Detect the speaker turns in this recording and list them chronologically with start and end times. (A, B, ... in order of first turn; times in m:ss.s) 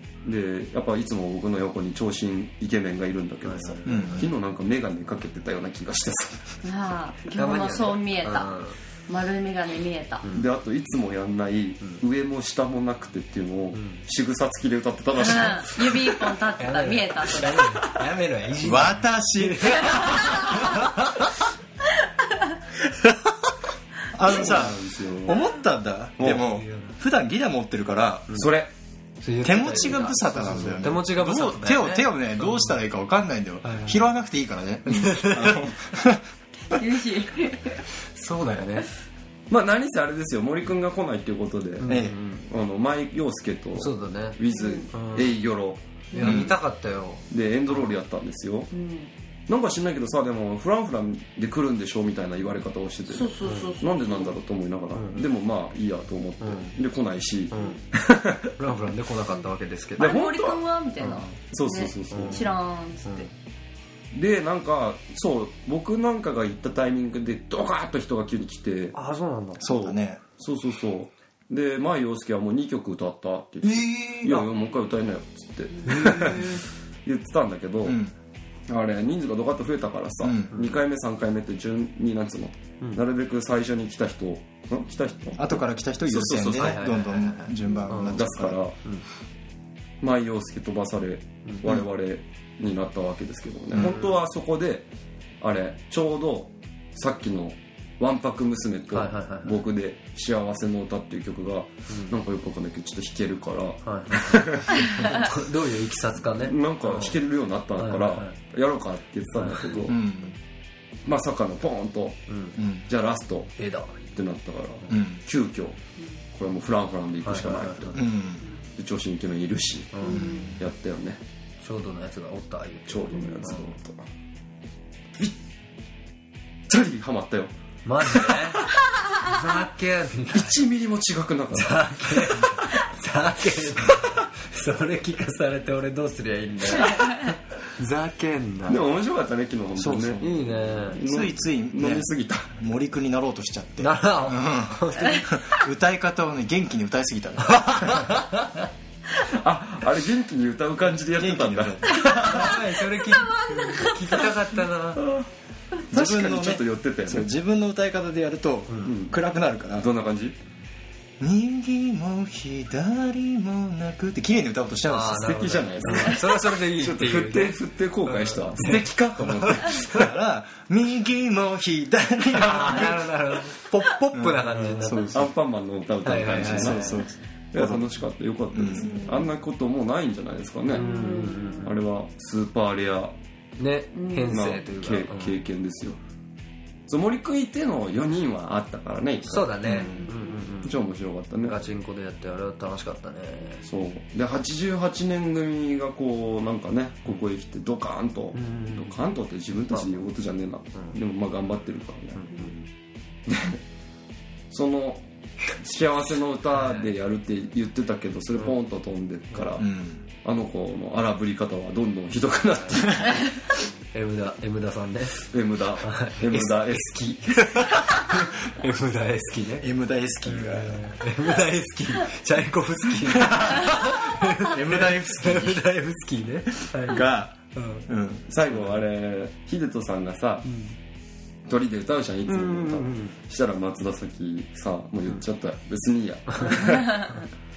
0:00.2-0:06.6 A
0:03.4-0:04.3 B
0:03.8-0:04.3 C
0:06.6-0:10.2 D
0:07.3-0:08.8 B
0:10.2-0:10.5 B
0:10.3-0:16.2 A
0:13.7-0:14.0 B
0:15.2-0:17.7 D
0:16.6-0:21.3 B
0:18.6-0:20.4 C
0:19.8-0:20.4 D
0:24.1-0:28.4 C
0:24.3-0:25.4 A
0:26.2-0:26.4 A
0:26.5-0:27.0 B
0:28.3-0:28.7 A
0:29.2-0:32.8 B
0:29.4-0:36.2 C
0:33.6-0:34.0 B
0:34.9-0:35.6 B
0:36.7-0:37.8 D
0:38.1-0:38.9 B
0:39.5-0:46.4 A
0:41.8-0:42.5 B
0:41.8-0:42.2 C
0:43.8-0:45.4 B
0:44.5-0:44.9 D
0:46.1-0:46.4 D
0:46.1-0:47.8 B
0:46.2-0:46.6 C
0:47.3-0:48.7 A
0:48.7-0:49.1 D
0:49.5-0:58.5 A
0:53.1-0:54.4 D
0:53.4-0:53.7 B
0:55.0-0:55.3 B
0:56.4-0:56.8 B
0:57.5-0:57.8 B
0:57.5-0:57.8 D
0:58.6-1:00.2 B
1:00.0-1:00.6 A
1:00.0-1:03.3 D
1:01.0-1:01.4 B
1:01.3-1:02.4 A
1:02.1-1:02.5 B
1:04.1-1:09.0 A
1:08.9-1:09.6 B
1:09.6-1:10.2 C
1:09.6-1:18.0 A
1:13.6-1:14.5 B
1:15.8-1:16.6 B
1:17.8-1:18.1 C
1:18.7-1:26.8 A
1:20.2-1:20.5 C
1:20.5-1:20.8 B
1:25.4-1:28.6 C
1:26.5-1:28.3 B
1:27.9-1:28.8 A
1:30.0-1:34.9 A
1:33.8-1:34.2 B
1:35.4-1:44.9 A
1:38.9-1:39.6 B
1:41.9-1:42.2 B
1:43.8-1:47.2 B
1:46.4-1:50.0 A
1:47.8-1:48.4 B
1:49.4-1:49.8 B
1:49.9-1:50.4 C
1:51.0-1:52.2 A
1:52.3-1:52.6 B
1:52.6-1:52.9 C
1:52.8-1:53.5 A
1:53.6-1:54.0 B
1:54.0-1:55.8 A
1:54.9-1:55.2 C
1:56.3-1:58.0 A
1:57.2-1:58.0 B
1:57.9-1:58.4 C
1:58.8-2:01.2 A
1:59.9-2:00.3 B
2:00.0-2:00.5 D
2:00.1-2:00.6 C
2:01.6-2:03.8 B
2:02.8-2:04.0 A
2:03.1-2:03.4 D
2:06.7-2:07.5 A
2:07.8-2:08.6 B
2:08.0-2:08.4 A
2:09.2-2:10.5 B
2:10.3-2:12.5 A
2:11.5-2:18.8 B
2:18.7-2:20.3 A
2:19.8-2:20.4 C
2:20.2-2:21.0 B
2:20.9-2:22.5 A
2:20.9-2:28.1 C
2:23.8-2:25.3 B
2:27.4-2:28.6 B
2:29.1-2:32.4 A
2:31.1-2:32.5 C
2:32.0-2:35.0 B
2:32.1-2:34.0 D
2:35.0-2:35.3 A
2:35.8-2:37.3 A
2:35.9-2:39.9 C
2:38.8-2:39.2 A
2:39.7-2:40.4 A
2:41.2-2:45.3 C
2:44.9-2:49.8 B
2:45.1-2:50.2 A
2:49.9-2:55.3 C
2:52.3-2:55.2 B
2:55.1-3:00.9 A
2:56.0-2:57.0 B
2:56.4-2:57.9 C
2:58.5-2:59.0 C
2:59.0-2:59.2 D
3:00.7-3:01.7 D
3:00.7-3:01.8 B
3:01.6-3:03.1 A
3:03.6-3:05.4 B
3:03.9-3:04.4 D
3:04.3-3:06.0 A
3:06.9-3:09.8 A
3:09.2-3:10.8 B
3:09.6-3:10.1 C
3:10.0-3:10.5 D
3:10.6-3:11.6 A
3:11.4-3:13.7 B
3:13.6-3:22.2 A
3:18.3-3:19.0 B
3:19.7-3:20.0 B
3:22.2-3:22.6 B
3:23.3-3:23.6 A
3:24.5-3:29.7 A
3:26.6-3:26.9 B
3:29.6-3:30.0 C
3:30.2-3:33.4 A
3:33.9-3:35.2 B
3:35.3-3:37.3 A
3:35.8-3:39.7 B
3:39.6-3:41.0 C
3:40.2-3:47.9 B
3:43.2-3:45.6 C
3:46.8-3:48.2 C
3:48.3-3:50.5 A
3:48.5-3:48.8 B
3:50.4-3:50.7 B
3:51.4-3:57.2 A
3:52.2-3:53.1 B
3:56.3-3:56.7 B